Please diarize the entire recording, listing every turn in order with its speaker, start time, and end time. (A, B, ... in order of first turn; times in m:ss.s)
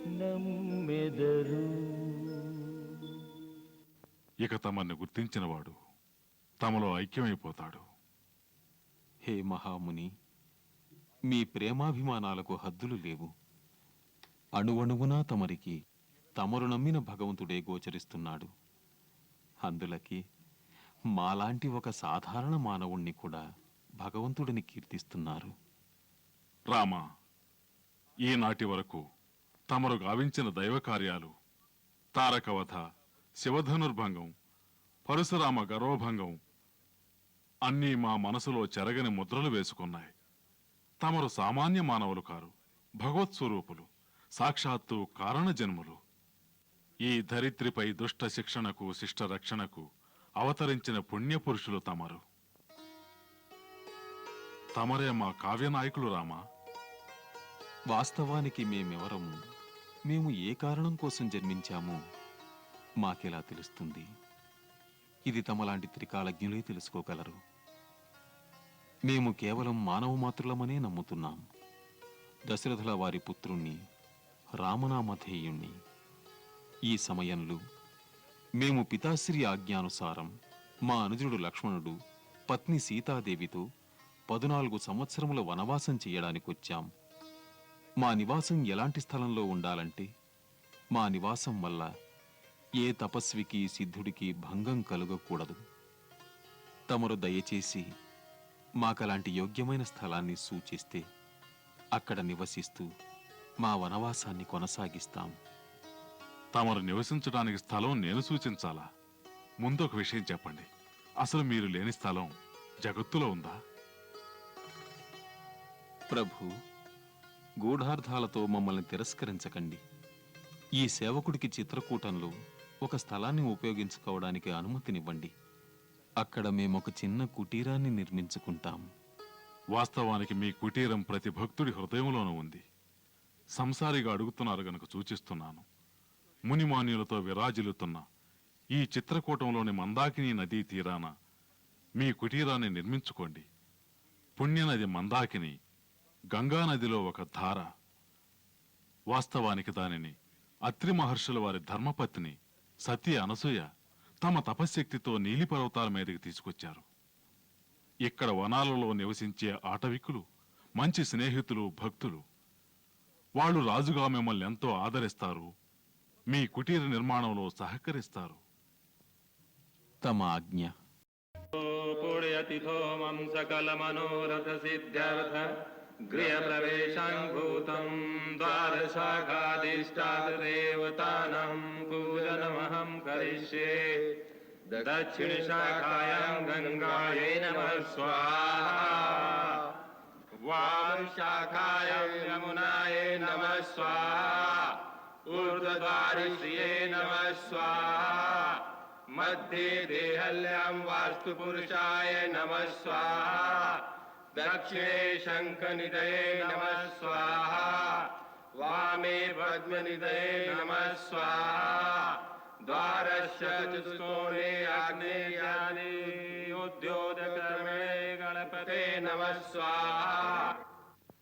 0:00.2-0:02.7 A
0:04.4-0:05.8 B
0:06.6-0:07.8 B
0:09.2-0:10.1 C
0:11.3-0:13.3 C
0:14.6-0:15.7 C
0:16.4-0:18.5 C
0:19.6-0:20.2 C
0:21.2-0:23.4 C
0:24.0-0:25.5 C
0:26.7-0:27.0 B
0:28.2-0:29.0 B
0:29.7-0:31.3 B
0:32.1-0:32.8 B
0:33.4-0:34.3 B
0:35.1-0:36.4 B
0:37.6-0:40.1 B
0:41.0-0:46.0 B
0:47.0-0:49.8 B
0:50.4-0:52.2 B
0:54.8-0:56.4 B
0:57.9-0:59.3 C
1:00.1-1:02.0 C
1:03.0-1:04.1 C
1:05.3-1:07.4 C
1:09.1-1:11.4 C
1:12.5-1:13.8 C
1:14.6-1:15.7 C
1:16.9-1:17.6 C
1:18.6-1:20.3 C
1:20.9-1:22.0 C
1:22.5-1:23.6 C
1:24.3-1:26.9 C
1:28.0-1:30.1 C
1:31.0-1:31.9 C
1:32.8-1:35.6 C
1:36.9-1:37.8 C
1:38.8-1:41.0 C
1:42.0-1:42.9 C
1:43.6-1:45.3 C
1:46.5-1:48.8 B
1:49.6-1:50.7 B
1:51.2-1:52.3 B
1:52.8-1:53.6 B
1:56.1-1:56.5 C
1:57.6-1:59.8 C
2:00.8-2:02.3 C
2:02.8-2:05.3 C
2:06.2-2:08.8 C
2:09.7-2:12.6 B
2:13.6-2:15.6 B
2:16.5-2:18.0 B
2:18.7-2:21.1 B
2:22.0-2:23.4 B
2:24.4-2:25.5 B
2:26.3-2:27.6 B
2:29.1-2:30.1 B
2:30.7-2:33.7 B
2:34.2-2:36.8 B
2:38.0-2:40.2 B
2:40.8-2:42.2 B
2:43.4-2:45.5 B
2:46.3-2:48.4 B
2:50.0-2:50.7 C
2:51.5-2:55.5 D
2:56.1-3:04.0 D
3:04.7-3:09.6 D
3:10.4-3:18.6 D
3:19.1-3:23.8 D
3:24.3-3:28.1 D
3:28.6-3:40.5 D